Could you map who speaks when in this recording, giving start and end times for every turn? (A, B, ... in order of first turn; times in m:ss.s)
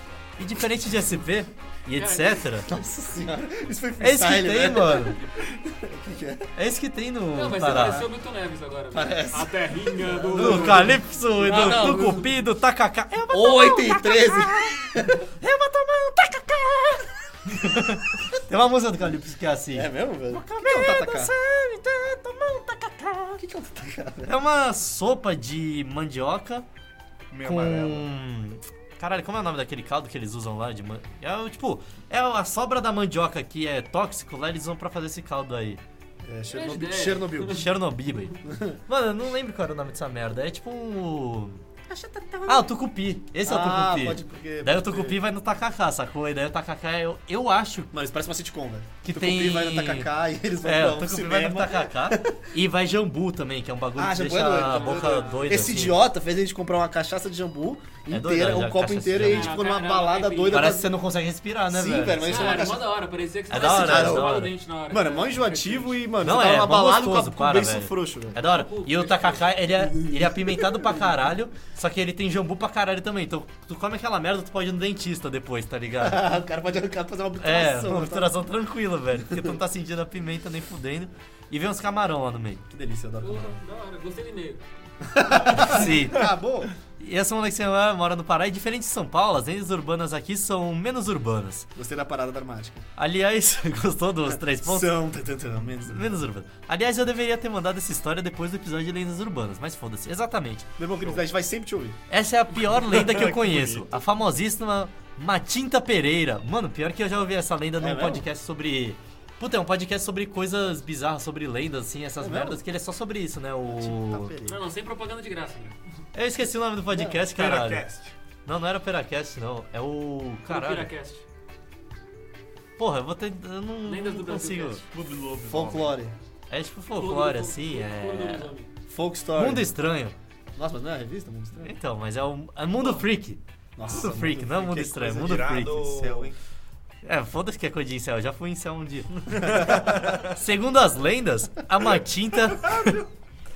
0:00.4-0:02.7 A
0:01.9-0:02.4 B
0:02.6-0:06.5 C
0:04.0-0:05.2 A
0:06.5-0:08.1 A
0:07.3-0:12.2 B
0:08.9-0:12.3 C
0:10.3-0:23.4 A
0:13.3-0:15.2 C
0:19.7-0:21.3 C
0:23.4-0:24.4 C
0:24.2-0:26.6 A
0:27.3-0:28.1 D
0:27.4-0:35.8 A
0:36.2-0:37.6 C
0:36.5-0:37.7 B
0:37.5-0:41.6 A
0:38.4-0:38.8 C
0:41.9-0:42.7 C
0:42.5-0:47.9 A
0:43.4-0:45.2 C
0:47.9-0:52.4 C
0:49.0-0:50.1 A
0:50.6-0:56.0 A
0:54.0-1:00.9 C
0:54.6-0:55.7 B
0:58.1-0:59.5 A
0:59.2-1:00.8 B
1:00.5-1:02.6 A
1:01.7-1:02.9 C
1:02.2-1:06.0 B
1:03.5-1:04.5 A
1:03.6-1:08.4 C
1:06.2-1:16.3 A
1:08.4-1:09.6 B
1:09.9-1:10.9 C
1:16.0-1:18.3 C
1:17.4-1:22.6 A
1:19.3-1:19.5 C
1:22.7-1:23.6 C
1:23.2-1:24.6 B
1:25.0-1:26.7 C
1:25.5-1:26.3 A
1:25.8-1:26.2 D
1:27.0-1:31.7 A
1:31.8-1:32.8 C
1:33.0-1:35.0 A
1:34.3-1:36.2 C
1:35.9-1:40.7 A
1:40.8-1:42.0 C
1:42.1-1:54.3 A
1:42.9-1:43.9 D
1:43.1-1:43.4 C
1:47.8-1:48.2 C
1:52.2-1:52.6 C
1:53.7-1:54.6 C
1:54.4-1:55.8 B
1:56.1-1:57.8 A
1:56.9-1:57.2 C
1:57.2-1:58.1 D
1:58.4-2:00.9 A
2:00.5-2:01.2 B
2:02.8-2:04.8 A
2:03.8-2:04.8 B
2:04.9-2:06.0 D
2:05.4-2:06.2 C
2:06.5-2:08.5 A
2:06.9-2:08.7 B
2:08.9-2:09.7 C
2:09.4-2:10.1 A
2:10.5-2:11.8 C
2:11.6-2:16.0 A
2:13.8-2:16.4 C
2:15.1-2:16.3 D
2:17.0-2:23.0 A
2:19.4-2:19.9 C
2:19.5-2:20.3 D